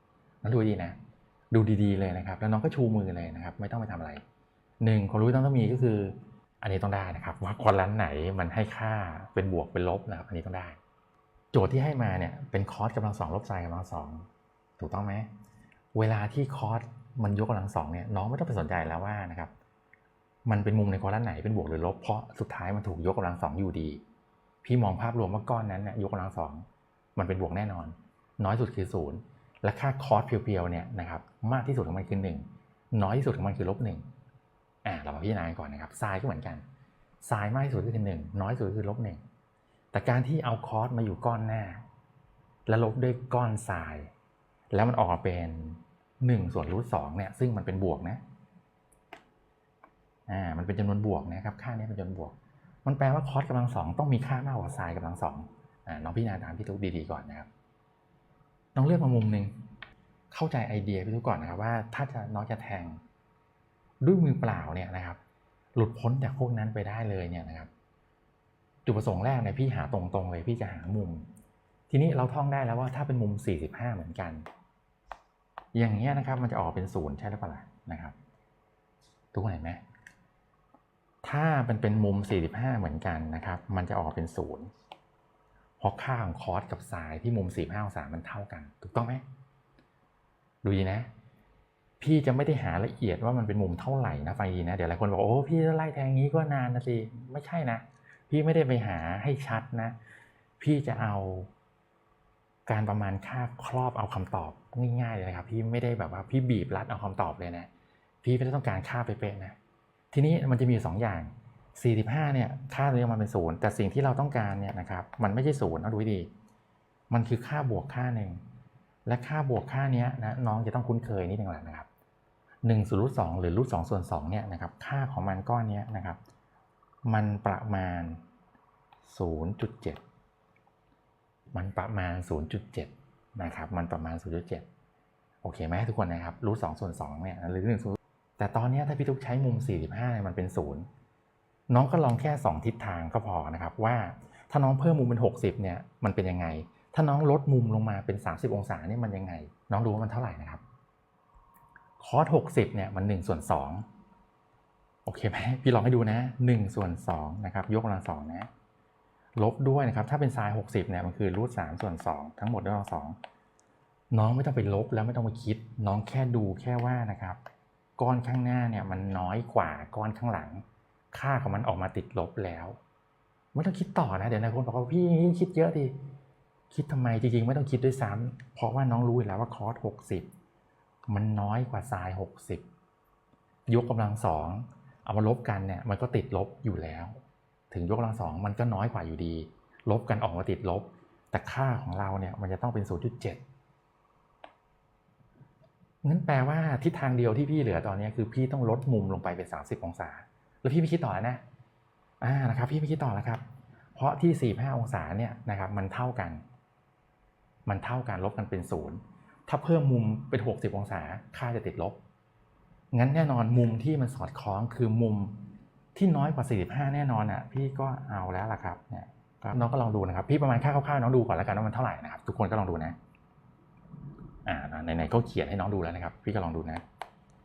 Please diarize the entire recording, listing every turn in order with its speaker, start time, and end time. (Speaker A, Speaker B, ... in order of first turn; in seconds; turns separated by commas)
Speaker A: 0.4-1.0, Speaker A: 1.5-4.2, Speaker A: 4.8-10.8, Speaker A: 11.5-15.3, Speaker A: 15.9-19.5, Speaker A: 20.4-24.0, Speaker A: 24.6-26.6, Speaker A: 27.1-34.0, Speaker A: 34.8-36.6, Speaker A: 37.2-39.2, Speaker A: 39.9-41.8, Speaker A: 42.7-44.1, Speaker A: 44.7-48.2, Speaker A: 50.3-57.5, Speaker A: 58.7-59.5, Speaker A: 60.3-63.0, Speaker A: 64.0-65.2, Speaker A: 65.8-67.7, Speaker A: 68.8-71.2, Speaker A: 71.9-74.5, Speaker A: 75.7-78.2, Speaker A: 79.3-79.8, Speaker A: 81.2-84.7, Speaker A: 85.8-89.2, Speaker A: 90.6-91.1, Speaker A: 92.0-100.0, Speaker A: 100.6-101.5, Speaker A: 102.7-107.7, Speaker A: 108.2-109.5, Speaker A: 110.1-116.3, Speaker A: 117.1-118.4, Speaker A: 119.0-121.9, Speaker A: 122.6-126.2, Speaker A: 127.0-128.2, Speaker A: 129.0-130.0, Speaker A: 131.5-134.7, Speaker A: 135.4-140.9, Speaker A: 141.7-150.6, Speaker A: 152.0-153.8, Speaker A: 155.1-158.5, Speaker A: 159.3-163.2, Speaker A: 164.1-167.4, Speaker A: 168.0-172.8, Speaker A: 173.5-176.0, Speaker A: 176.7-180.3, Speaker A: 181.1-182.6, Speaker A: 183.7-193.4, Speaker A: 196.0-201.4, Speaker A: 202.2-203.4, Speaker A: 203.9-206.4, Speaker A: 207.7-212.0, Speaker A: 212.9-215.4, Speaker A: 215.9-222.9, Speaker A: 224.4-226.8